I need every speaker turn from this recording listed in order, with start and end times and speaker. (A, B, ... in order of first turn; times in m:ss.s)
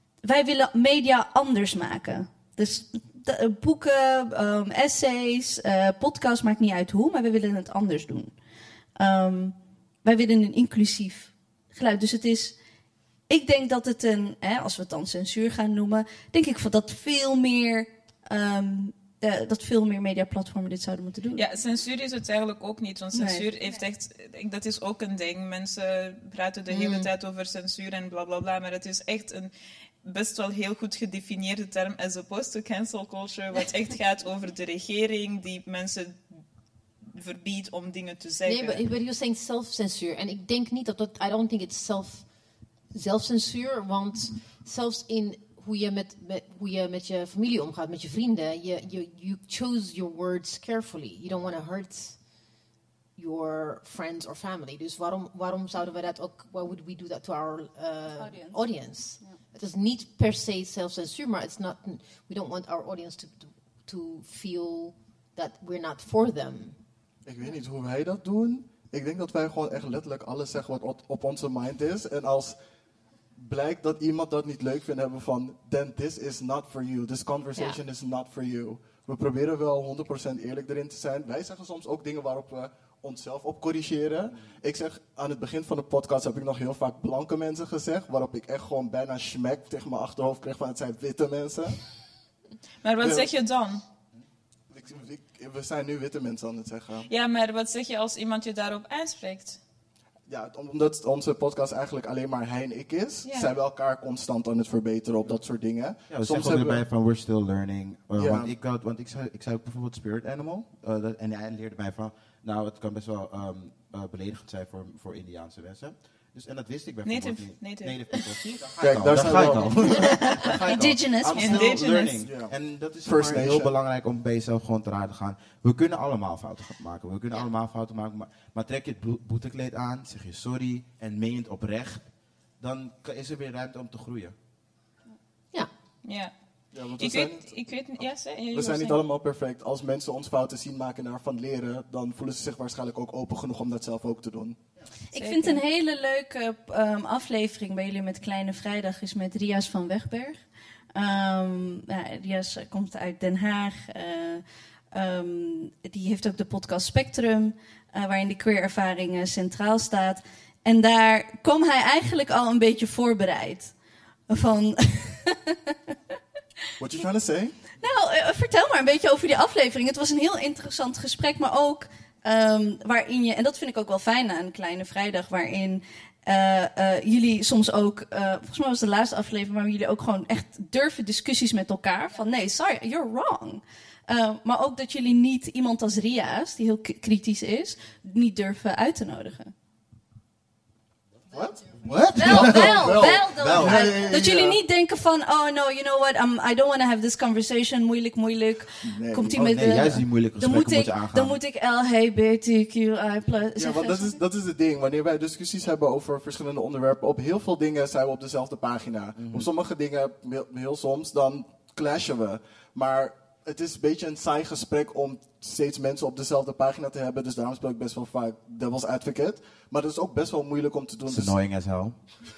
0:00.2-0:08.3 A
0:09.0-0:12.5 A
0:13.3-0:21.4 A
0:21.4-0:29.5 B
0:23.1-0:23.5 A
0:26.7-0:27.1 C
0:30.0-0:36.4 B
0:37.1-0:38.8 B
0:38.4-0:42.2 C
0:42.9-0:52.2 C
0:53.2-1:06.8 C
0:58.2-0:58.6 A
1:07.2-1:12.6 D
1:13.4-1:31.8 D
1:32.8-1:33.8 B
1:33.0-1:33.3 D
1:34.7-1:37.1 D
1:37.1-1:39.6 B
1:40.3-1:46.8 D
1:43.2-1:43.5 B
1:46.1-2:12.1 E
1:48.2-1:48.5 D
1:57.0-1:58.0 B
1:58.8-2:00.2 D
2:00.3-2:01.6 A
2:01.4-2:02.2 B
2:02.2-2:02.5 D
2:03.0-2:03.7 D
2:12.6-2:14.3 E
2:16.0-2:16.3 B
2:16.7-2:17.6 D
2:17.0-2:19.0 B
2:18.5-2:24.6 D
2:25.1-2:30.4 A
2:25.1-2:25.6 B
2:30.9-2:43.7 A
2:44.3-2:45.9 A
2:46.8-2:47.6 D
2:47.8-3:09.5 A
3:11.3-3:14.6 D
3:11.8-3:14.1 E
3:12.1-3:24.2 A
3:18.8-3:19.9 D
3:19.3-3:21.4 E
3:23.6-3:41.3 D
3:29.2-3:29.5 E
3:41.1-3:42.0 E